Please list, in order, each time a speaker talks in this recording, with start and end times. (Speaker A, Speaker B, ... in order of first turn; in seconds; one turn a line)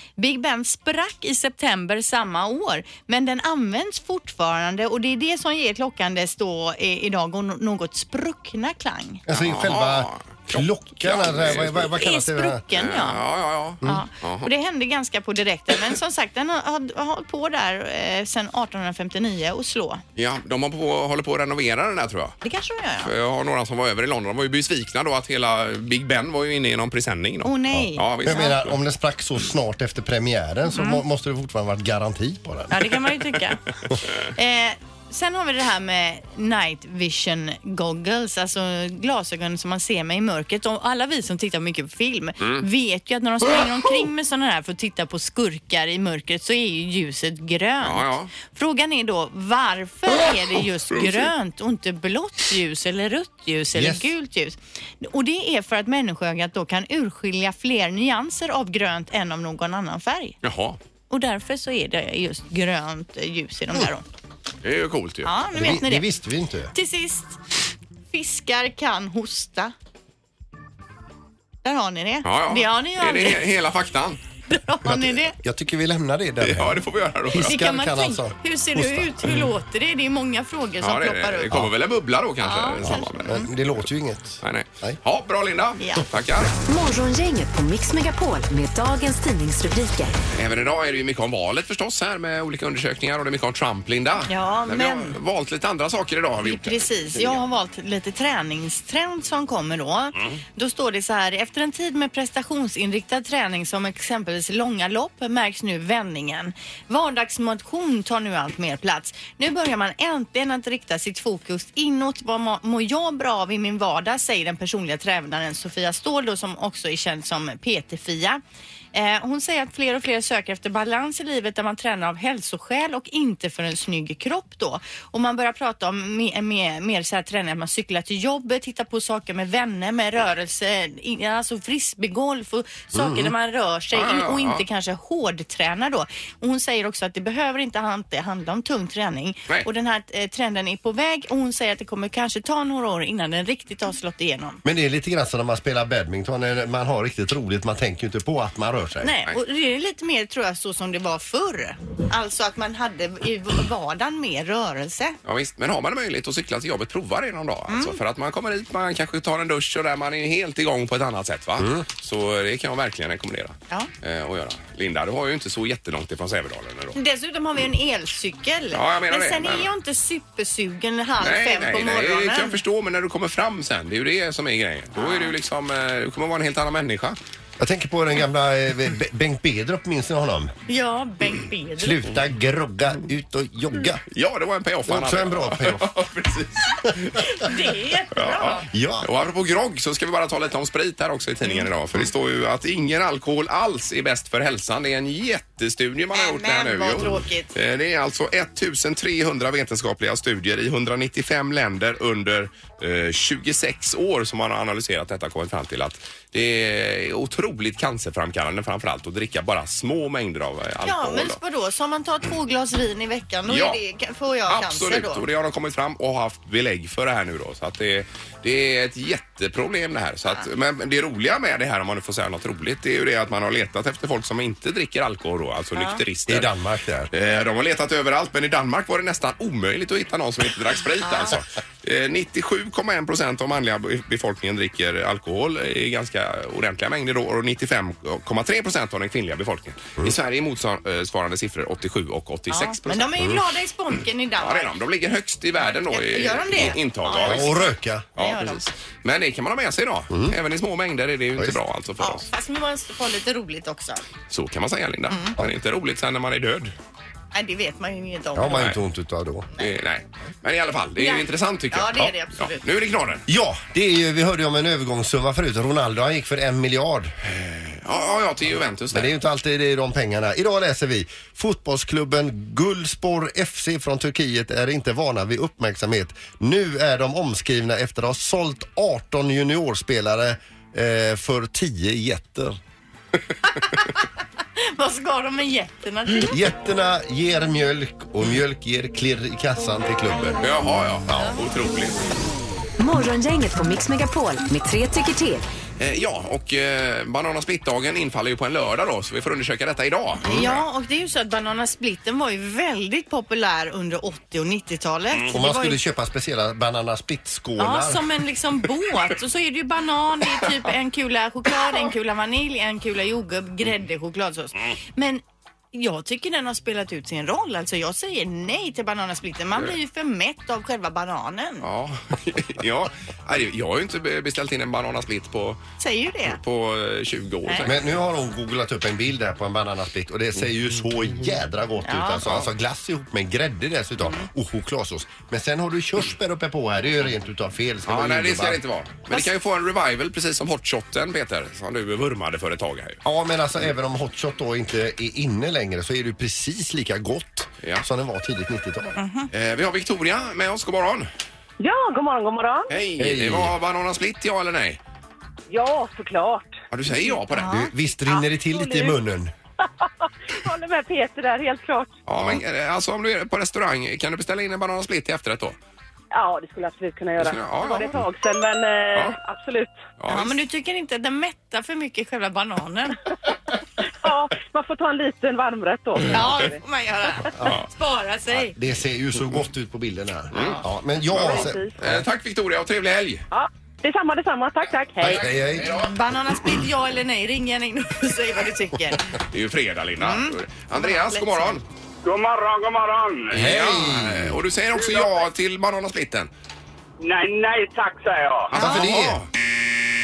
Speaker A: 0.2-9.2
Speaker B: 9.3-12.6
Speaker C: 9.3-11.9
Speaker A: 11.9-13.2
Speaker C: 12.7-14.5
Speaker A: 13.8-20.0
Speaker C: 20.1-22.4
Speaker A: 22.4-23.1
Speaker C: 23.0-28.7
Speaker A: 27.4-28.6
Speaker B: 28.2-33.0
Speaker A: 30.7-31.0
Speaker A: 32.7-60.4
Speaker C: 42.4-42.6
Speaker C: 47.8-48.3
Speaker C: 50.9-51.3
Speaker B: 53.7-54.1
Speaker C: 60.4-60.8
Speaker A: 61.1-64.0
Speaker C: 64.6-65.3
Speaker A: 65.2-66.1
Speaker B: 65.5-66.7
Speaker A: 66.7-67.4
Speaker A: 68.1-69.7
Speaker A: 71.6-73.4
Speaker C: 72.2-74.2
Speaker A: 74.5-75.3
Speaker B: 74.8-79.5
Speaker C: 76.4-77.6
Speaker A: 77.4-81.5
Speaker C: 80.8-83.7
Speaker A: 82.4-83.5
Speaker B: 82.8-85.0
Speaker C: 84.4-86.5
Speaker A: 85.8-86.0
Speaker D: 86.7-90.2
Speaker C: 90.3-97.4
Speaker A: 94.3-95.2
Speaker A: 96.4-118.4
Speaker C: 100.2-100.4
Speaker A: 118.9-144.6
Speaker B: 132.9-133.3
Speaker C: 133.9-134.6
Speaker B: 144.6-149.1
Speaker A: 149.0-155.2
Speaker C: 155.2-167.0
Speaker A: 157.7-158.0
Speaker B: 161.6-161.8
Speaker A: 166.9-172.6
Speaker C: 168.7-169.7
Speaker C: 171.2-177.2
Speaker A: 175.0-175.3
Speaker B: 177.6-180.5
Speaker A: 180.7-182.0
Speaker B: 181.8-184.0
Speaker C: 184.1-187.4
Speaker B: 184.9-185.9
Speaker A: 187.4-188.6
Speaker C: 188.1-211.4
Speaker B: 188.6-189.1
Speaker A: 196.1-197.5
Speaker A: 210.8-215.2
Speaker C: 213.5-213.8
Speaker C: 214.5-226.5
Speaker A: 225.8-226.0
Speaker B: 226.3-227.1
Speaker C: 227.1-243.2
Speaker A: 231.1-231.3
Speaker A: 242.5-244.7
Speaker C: 244.4-247.5
Speaker A: 245.9-248.6
Speaker B: 247.2-248.1
Speaker C: 248.2-252.3
Speaker B: 250.1-250.3
Speaker A: 252.0-254.0
Speaker C: 254.3-256.7
Speaker A: 255.1-255.4
Speaker A: 257.3-258.7
Speaker B: 258.3-259.5
Speaker C: 259.6-263.2
Speaker A: 261.0-262.6
Speaker B: 263.3-267.1
Speaker C: 267.2-269.1
Speaker B: 268.9-282.6
Speaker A: 284.6-286.4
Speaker B: 286.1-290.5
Speaker C: 290.4-292.1
Speaker B: 291.1-291.4
Speaker D: 292.8-295.4
Speaker C: 295.8-300.6
Speaker A: 300.2-305.8
Speaker B: 305.3-308.1
Speaker A: 307.6-321.6
Speaker C: 321.6-325.6
Speaker A: 325.8-326.4
Speaker C: 326.3-327.9
Speaker B: 327.6-338.6
Speaker A: 331.8-332.2
Speaker C: 337.9-343.0
Speaker B: 343.0-349.0
Speaker A: 349.0-349.3
Speaker C: 349.3-351.1
Speaker E: 351.6-352.7
Speaker C: 352.7-354.8
Speaker B: 353.0-353.5
Speaker E: 355.5-356.6
Speaker C: 356.7-357.6
Speaker A: 357.3-357.7
Speaker B: 357.5-359.3
Speaker E: 358.2-359.0
Speaker E: 359.8-361.9
Speaker C: 362.1-365.6
Speaker E: 366.1-369.8
Speaker C: 367.2-368.0
Speaker C: 370.0-370.4
Speaker A: 370.1-373.0
Speaker E: 374.0-376.6
Speaker A: 376.0-378.6
Speaker B: 377.4-377.6
Speaker B: 378.3-381.6
Speaker C: 380.3-380.6
Speaker C: 381.1-383.2
Speaker E: 381.2-381.8
Speaker E: 383.3-385.2
Speaker B: 385.0-385.7
Speaker C: 385.0-385.9
Speaker A: 385.7-389.1
Speaker C: 389.3-391.6
Speaker A: 390.0-391.6
Speaker F: 392.0-393.3
Speaker B: 393.3-394.4
Speaker C: 393.3-396.3
Speaker F: 394.7-395.3
Speaker F: 397.0-398.5
Speaker C: 398.5-399.3
Speaker B: 398.5-399.2
Speaker A: 398.6-398.8